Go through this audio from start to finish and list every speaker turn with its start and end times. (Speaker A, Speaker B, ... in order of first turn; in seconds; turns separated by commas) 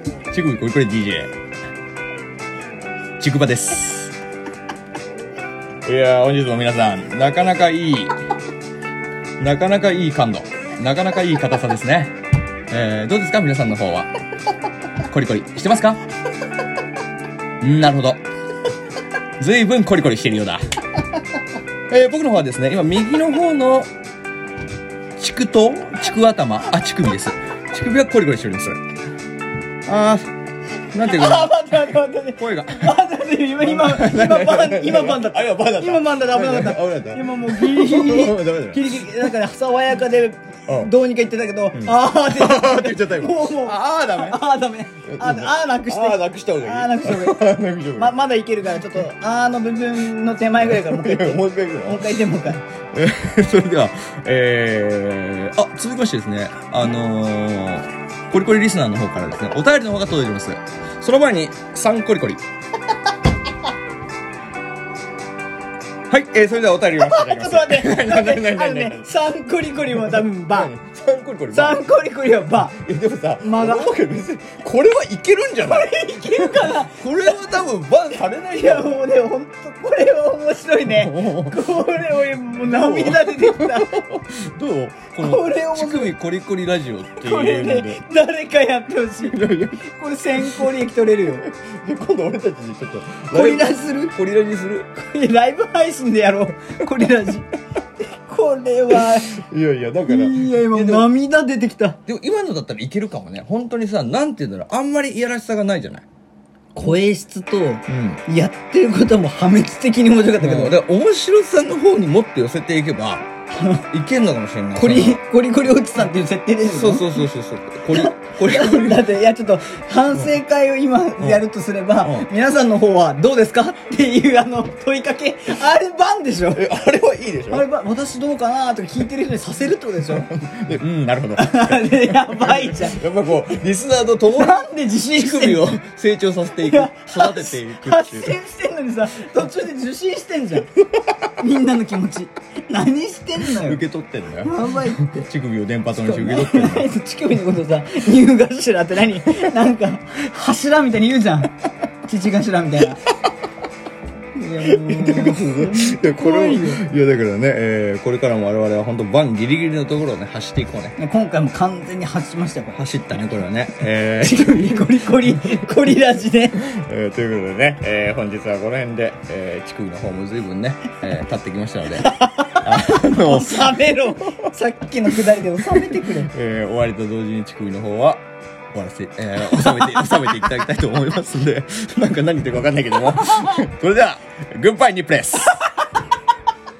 Speaker A: 0.3-1.3, Speaker A: 3.2-4.1, Speaker A: 5.8-8.2, Speaker A: 9.4-12.2, Speaker A: 12.7-14.1, Speaker A: 15.1-16.0, Speaker A: 17.6-18.2, Speaker A: 19.4-20.6, Speaker A: 21.9-23.9, Speaker A: 25.2-28.8, Speaker A: 29.9-30.3, Speaker A: 30.9-31.8, Speaker B: 30.9-52.6, Speaker A: 32.4-33.0, Speaker A: 33.6-39.3, Speaker A: 40.7-40.9, Speaker A: 41.7-44.4, Speaker A: 45.1-48.1, Speaker A: 50.6-62.4, Speaker A: 66.1-69.1, Speaker B: 67.0-70.7, Speaker A: 69.9-71.8, Speaker B: 71.5-72.7, Speaker A: 72.6-79.0, Speaker B: 73.4-73.9, Speaker B: 75.6-77.6, Speaker B: 78.5-84.0, Speaker A: 80.8-81.7, Speaker A: 82.5-88.0, Speaker B: 85.2-86.1, Speaker B: 87.2-91.4, Speaker A: 89.2-89.8, Speaker A: 90.4-94.9, Speaker B: 93.3-94.2, Speaker B: 94.9-97.5, Speaker B: 98.0-99.4, Speaker A: 98.9-101.1, Speaker B: 100.1-102.0, Speaker A: 102.0-106.0, Speaker B: 106.7-110.7, Speaker A: 107.9-108.2, Speaker A: 110.4-113.2, Speaker B: 113.5-113.8, Speaker A: 113.9-115.2, Speaker B: 114.7-117.2, Speaker A: 116.7-119.1, Speaker B: 117.9-126.6, Speaker A: 122.0-122.3, Speaker A: 126.5-127.6, Speaker B: 127.5-130.3, Speaker A: 130.1-138.3, Speaker B: 131.4-133.0, Speaker B: 134.3-135.7, Speaker B: 136.6-140.7, Speaker B: 141.4-143.8, Speaker A: 143.4-146.9, Speaker B: 144.4-145.2, Speaker B: 145.9-151.5, Speaker B: 152.0-153.0, Speaker B: 154.3-156.8, Speaker A: 154.6-160.9, Speaker B: 161.0-162.8, Speaker A: 162.8-165.9, Speaker B: 164.2-166.6, Speaker A: 166.6-174.4, Speaker B: 171.9-176.3, Speaker A: 175.2-185.6, Speaker B: 179.5-180.6, Speaker B: 183.2-183.6, Speaker B: 185.5-186.0